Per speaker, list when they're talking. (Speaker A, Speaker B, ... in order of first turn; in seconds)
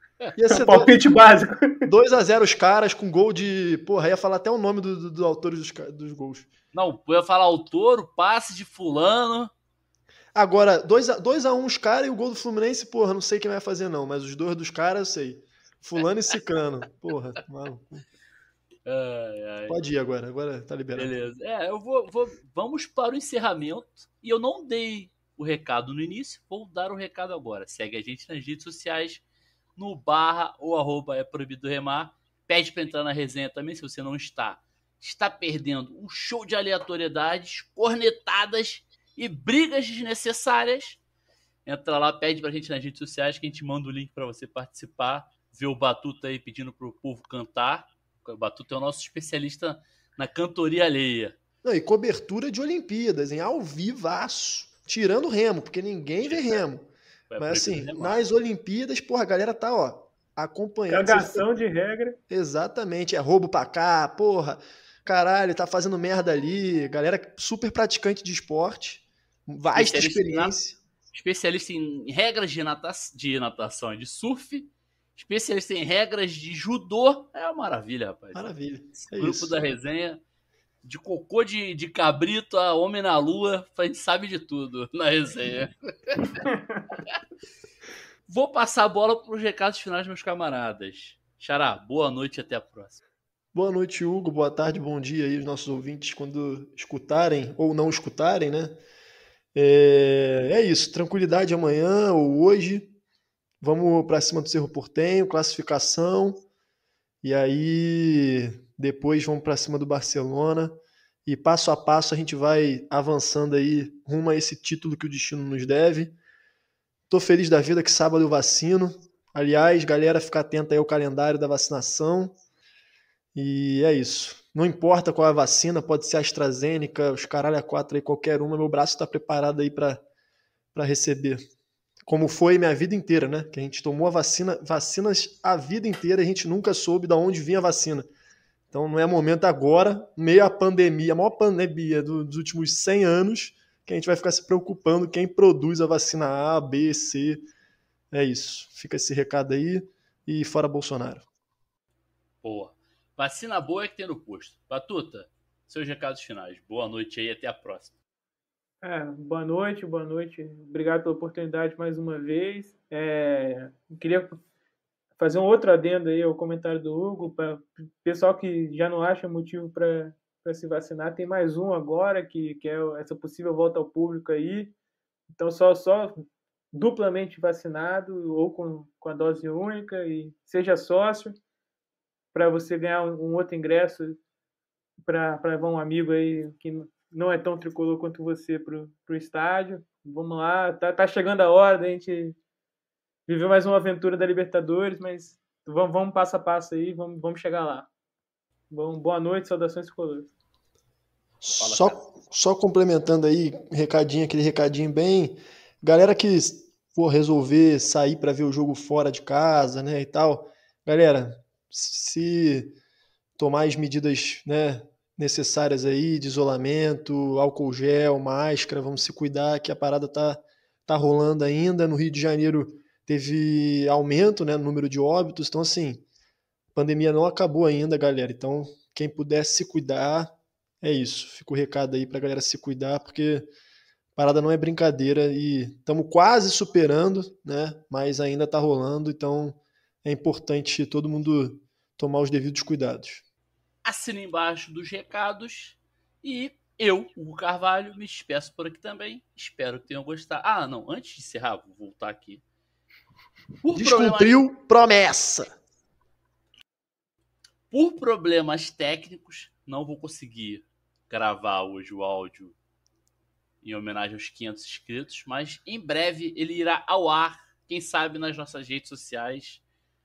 Speaker A: 0.4-1.0, 1.9-6.5, 10.3-18.0, 19.7-21.2, 51.6-61.5, 62.3-70.8, 78.3-79.5, 93.5-98.8, 99.5-102.9, 103.6-106.4, 107.2-110.7, 111.2-116.2, 117.1-122.4, 123.3-130.0, 130.7-131.4, 132.1-138.1, 138.7-147.5, 148.1-151.3, 201.4-212.7, 213.4-226.0, 226.7-233.5, 234.2-243.2, 253.7-255.6
Speaker B: 0.5-1.9, 60.9-62.2, 86.4-86.8, 158.8-164.4, 165.2-174.7, 175.3-181.4, 182.3-184.2, 185.0-192.4, 193.3-197.9, 198.7-200.3
Speaker C: 6.7-9.5, 18.9-19.8, 21.0-29.2, 29.8-41.0, 41.7-51.4, 56.2-56.6, 57.3-58.2, 69.7-70.6, 71.1-80.2, 80.8-86.4, 88.3-93.0, 152.4-157.9, 201.6-202.0, 243.8-252.4, 253.6-254.4, 257.7-262.6, 263.6-269.6